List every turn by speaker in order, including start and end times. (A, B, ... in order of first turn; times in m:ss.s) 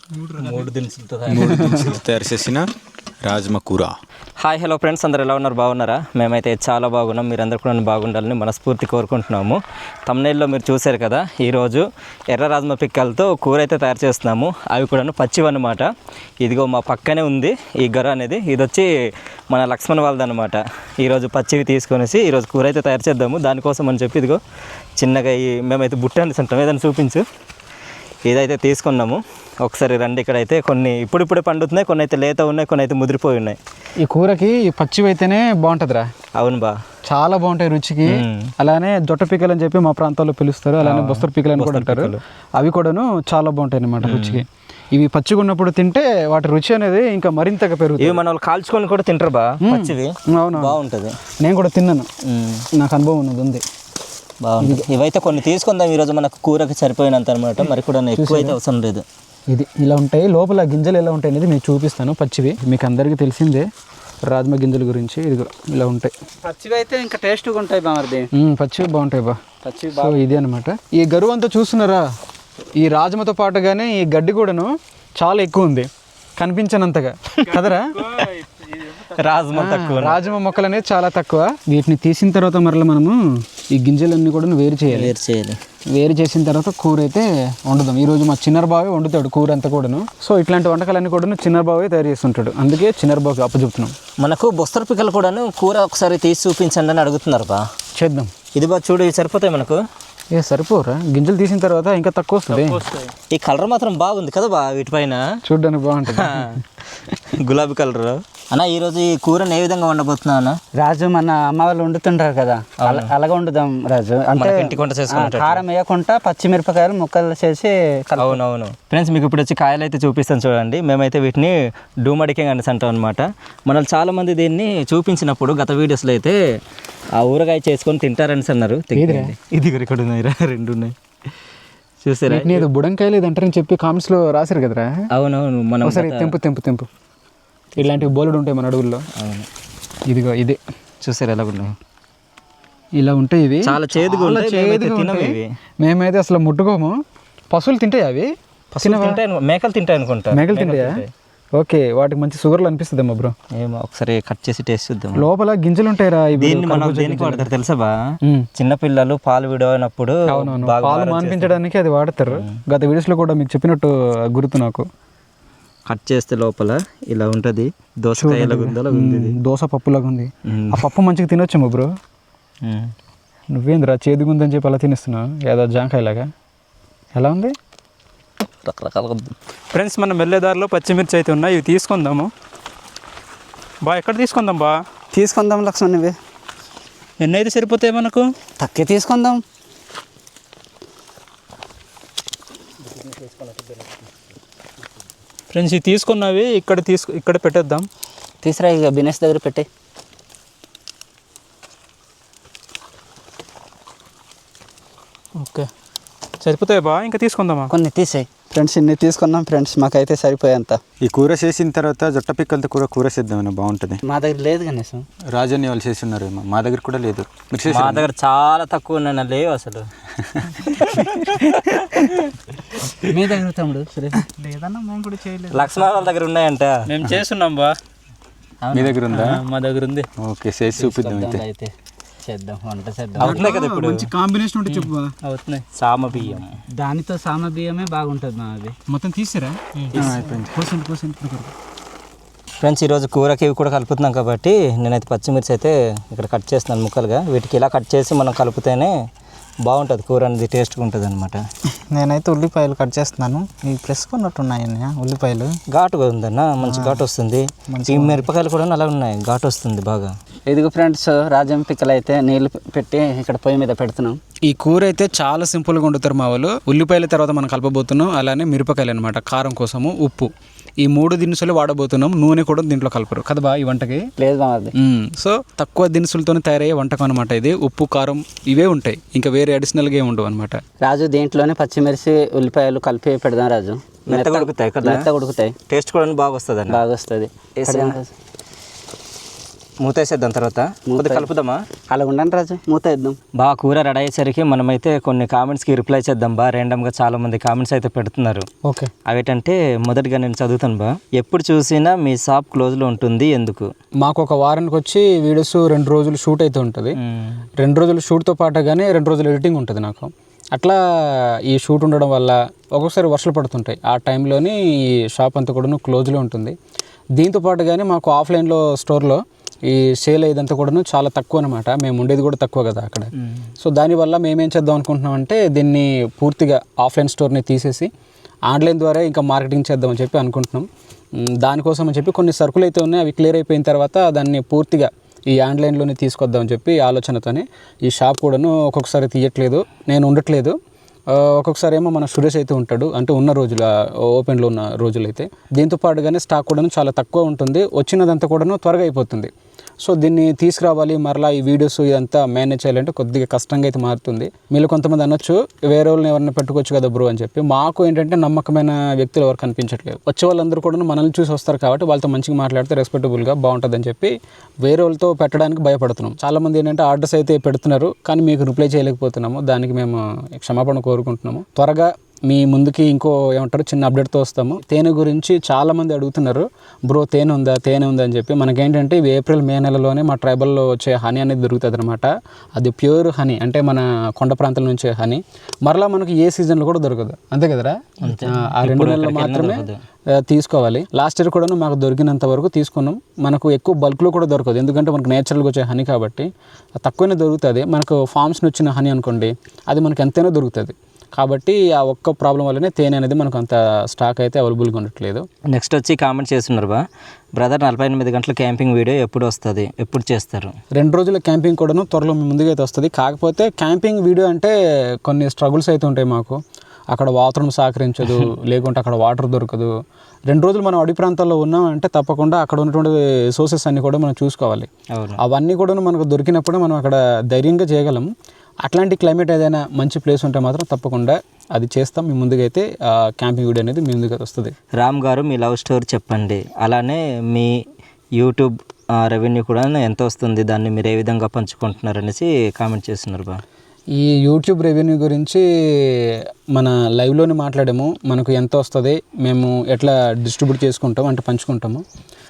0:00.3-0:02.0 A
0:01.3-0:02.6 B
0:01.3-0:01.9 C
0:03.2-0:03.9 B
0:04.4-0:15.9 A
0:16.4-0:18.9 A
0:19.5-0:24.4 A
0:25.0-0:27.2 A
0:28.3-0:33.6 A
0:34.0-0:36.1 C
0:36.4-0:36.7 A
0:37.1-0:48.2 C
0:38.1-0:38.5 A
0:40.8-0:42.2 A
0:44.0-0:44.4 A
0:48.0-0:51.2 A
0:49.6-0:50.8 C
0:51.4-0:52.1 C
0:52.2-0:52.6 A
0:52.8-0:53.6 C
0:54.4-0:59.0 A
0:54.6-0:54.8 C
0:58.2-0:58.6 C
0:59.5-1:03.6 C
1:04.3-1:06.1 C
1:06.4-1:08.3 D
1:08.3-1:09.4 C
1:09.6-1:10.2 D
1:10.0-1:12.1 C
1:12.8-1:18.0 C
1:18.0-1:20.2 A
1:19.5-1:23.1 C
1:23.7-1:25.1 C
1:24.9-1:25.6 A
1:25.9-1:33.9 C
1:34.2-1:37.6 A
1:38.0-1:38.3 C
1:38.5-1:39.8 A
1:40.3-1:42.8 C
1:42.5-1:45.2 A
1:45.4-1:46.5 C
1:46.1-1:50.6 A
1:50.8-1:58.4 D
1:52.8-1:53.1 A
1:54.3-1:55.6 A
1:58.2-2:06.4 A
2:07.2-2:10.9 A
2:08.9-2:09.3 C
2:12.0-2:12.7 A
2:12.3-2:14.9 C
2:15.1-2:16.3 A
2:15.8-2:16.9 C
2:17.8-2:18.1 A
2:17.8-2:19.0 C
2:19.2-2:19.5 A
2:20.1-2:20.6 C
2:21.0-2:21.7 A
2:23.0-2:26.9 C
2:23.6-2:25.4 A
2:27.5-2:28.3 C
2:28.7-2:31.1 A
2:28.8-2:29.2 C
2:30.3-2:31.0 C
2:31.6-2:33.3 C
2:33.5-2:35.2 A
2:35.2-2:37.5 C
2:36.4-2:37.9 A
2:38.6-2:41.6 A
2:40.3-2:44.8 C
2:42.3-2:42.6 A
2:45.9-2:49.4 A
2:48.2-2:51.9 C
2:50.5-2:50.8 A
2:52.6-2:52.9 A
2:53.5-2:56.3 C
2:57.1-2:57.5 C
2:58.6-2:59.2 A
2:59.7-3:02.3 C
3:03.8-3:04.7 C
3:05.1-3:06.2 D
3:07.2-3:07.5 E
3:07.3-3:08.2 C
3:08.6-3:09.4 D
3:15.5-3:17.8 C
3:15.6-3:16.3 E
3:18.4-3:19.7 D
3:25.4-3:25.6 C
3:26.4-3:27.7 C
3:27.7-3:30.8 D
3:31.0-3:34.0 B
3:34.0-3:35.0 D
3:35.3-3:38.0 B
3:37.7-3:39.9 A
3:40.4-3:42.3 A
3:43.0-3:45.7 D
3:45.5-3:46.9 A
3:47.0-3:47.7 E
3:48.7-3:49.2 B
3:48.9-3:49.4 C
3:49.1-3:50.0 E
3:50.2-3:51.4 B
3:50.7-3:51.7 D
3:52.2-3:53.4 D
3:53.2-3:54.0 A
3:53.2-3:55.1 C
3:54.7-3:56.6 A
3:56.7-3:58.7 D
3:58.9-4:01.5 C
4:02.6-4:08.9 A
4:09.6-4:11.4 A
4:11.9-4:15.5 D
4:15.7-4:20.1 A
4:16.6-4:17.0 D
4:17.7-4:18.2 D
4:20.5-4:24.2 D
4:24.5-4:30.3 C
4:30.8-4:34.1 C
4:34.2-4:34.7 D
4:34.7-4:40.6 C
4:40.8-4:45.5 D
4:44.1-4:45.0 A
4:45.7-4:46.8 A
4:46.7-4:48.1 D
4:47.6-4:48.0 A
4:49.8-4:51.6 A
4:50.9-4:51.3 D
4:51.9-4:53.2 D
4:53.4-4:58.4 A
4:58.6-4:58.9 C
4:59.1-5:03.7 A
5:04.0-5:07.0 C
5:07.0-5:07.4 A
5:07.6-5:14.6 C
5:15.1-5:16.5 C
5:17.2-5:27.9 C
5:28.5-5:30.6 C
5:31.3-5:40.5 C
5:41.1-5:49.3 C
5:49.8-6:36.3 C
6:28.0-6:29.8 A
6:36.8-6:45.2 C
6:45.5-6:46.8 A
6:47.4-6:50.5 A
6:50.8-6:56.4 C
6:56.9-6:59.7 C
7:00.3-7:04.7 C
7:04.9-7:05.2 A
7:05.2-7:08.1 C
7:08.6-7:14.5 C
7:14.8-7:17.5 A
7:18.2-7:23.4 A
7:23.9-7:31.8 C